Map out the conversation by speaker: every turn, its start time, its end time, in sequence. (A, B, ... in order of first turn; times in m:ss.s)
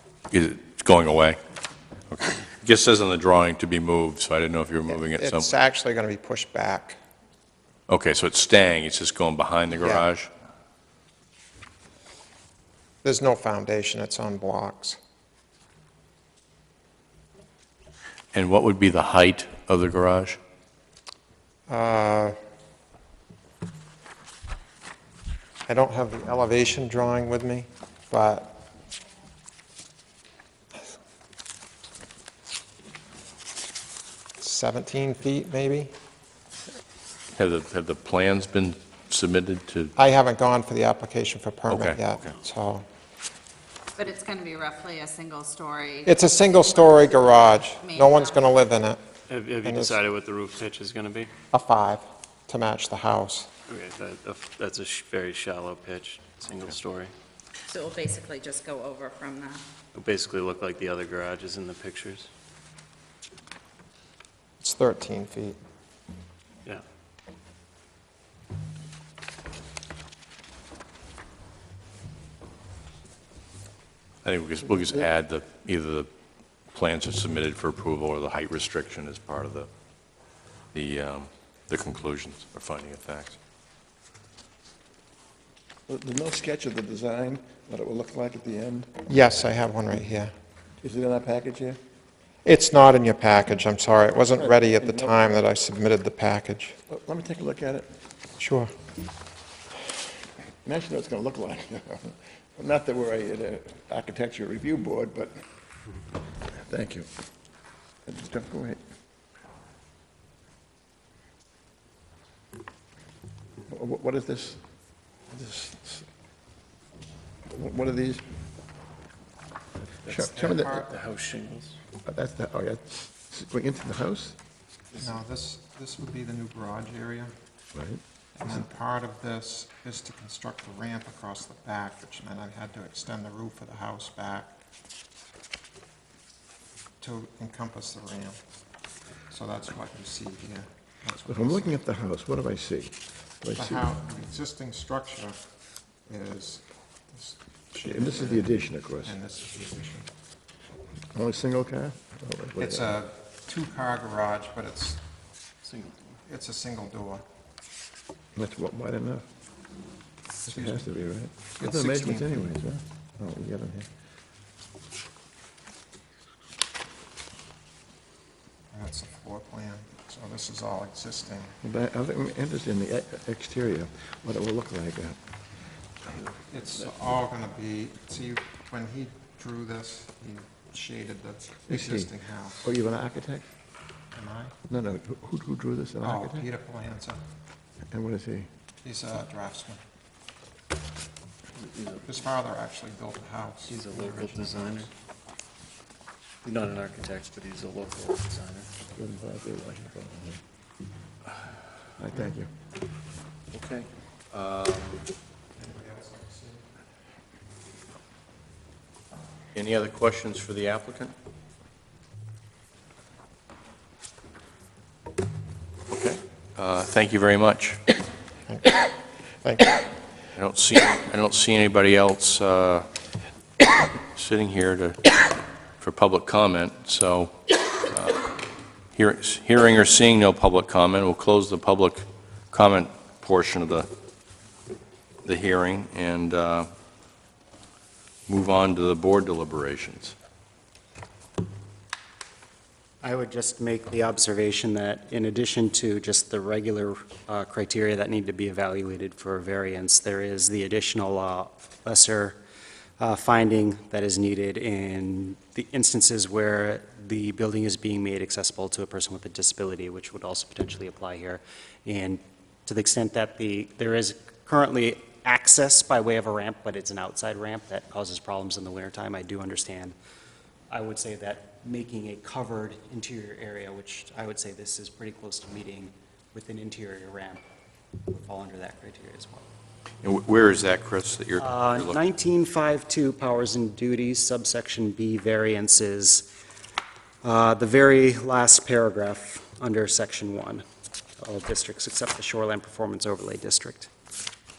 0:00.3-0:01.4 A
0:02.1-0:05.5 A
0:04.9-0:07.0 B
0:07.9-0:10.3 A
0:09.8-0:10.1 B
0:13.0-0:15.0 B
0:18.3-0:20.4 A
0:21.7-0:22.4 B
0:25.7-0:28.5 B
0:34.4-0:35.9 B
0:37.4-0:39.9 A
0:40.0-0:42.9 B
0:41.7-0:42.3 A
0:44.0-0:46.2 C
0:46.1-0:49.0 B
0:47.8-0:48.5 C
0:49.3-0:51.3 D
0:49.6-0:50.0 B
0:51.5-0:53.5 B
0:53.7-0:57.1 D
0:57.7-0:59.6 C
0:59.9-1:02.3 D
1:04.6-1:05.6 B
1:14.2-1:16.1 A
1:16.7-1:19.7 A
1:20.7-1:23.4 A
1:25.9-1:29.1 E
1:29.1-1:30.3 B
1:30.8-1:31.8 E
1:32.4-1:36.8 B
1:34.3-1:35.4 E
1:36.9-1:37.9 E
1:38.4-1:38.7 B
1:40.6-1:45.4 E
1:46.5-1:47.1 E
1:48.1-1:48.8 E
1:53.7-1:54.6 E
1:55.3-1:56.1 E
1:57.5-1:58.3 E
2:00.1-2:00.8 E
2:00.1-2:01.8 D
2:00.1-2:00.9 B
2:02.0-2:04.4 E
2:05.0-2:07.3 B
2:07.8-2:08.0 E
2:08.4-2:14.5 B
2:17.0-2:18.4 B
2:19.3-2:21.7 B
2:21.2-2:23.9 E
2:23.6-2:25.4 B
2:26.1-2:28.5 B
2:27.8-2:29.2 E
2:29.0-2:30.1 B
2:31.1-2:33.0 E
2:32.6-2:35.0 B
2:35.6-2:36.0 D
2:36.3-2:37.2 B
2:38.4-2:39.3 E
2:40.5-2:40.8 B
2:40.5-2:43.9 E
2:41.6-2:42.5 B
2:48.7-2:51.5 B
2:51.6-2:55.2 E
2:56.5-3:02.7 B
3:01.7-3:03.5 E
3:04.1-3:04.6 B
3:04.7-3:06.5 E
3:06.0-3:07.2 B
3:07.9-3:08.5 E
3:08.8-3:09.8 B
3:11.6-3:12.1 D
3:12.0-3:14.9 B
3:13.7-3:14.9 D
3:16.4-3:18.7 D
3:19.0-3:20.4 E
3:22.0-3:22.5 E
3:23.5-3:25.1 A
3:25.6-3:26.6 B
3:29.5-3:31.1 A
3:35.9-3:37.8 A
3:38.5-3:39.9 B
3:40.4-3:42.9 A
3:44.1-3:45.1 A
3:45.8-3:48.3 A
3:48.9-3:53.9 A
3:55.2-3:56.7 A
3:58.3-4:00.2 A
4:03.0-4:12.4 F
4:13.0-4:30.0 F
4:30.7-4:37.4 F
4:38.0-4:39.5 F
4:40.0-4:42.0 A
4:41.4-4:46.3 F
4:47.2-4:50.6 F
4:51.2-4:53.9 F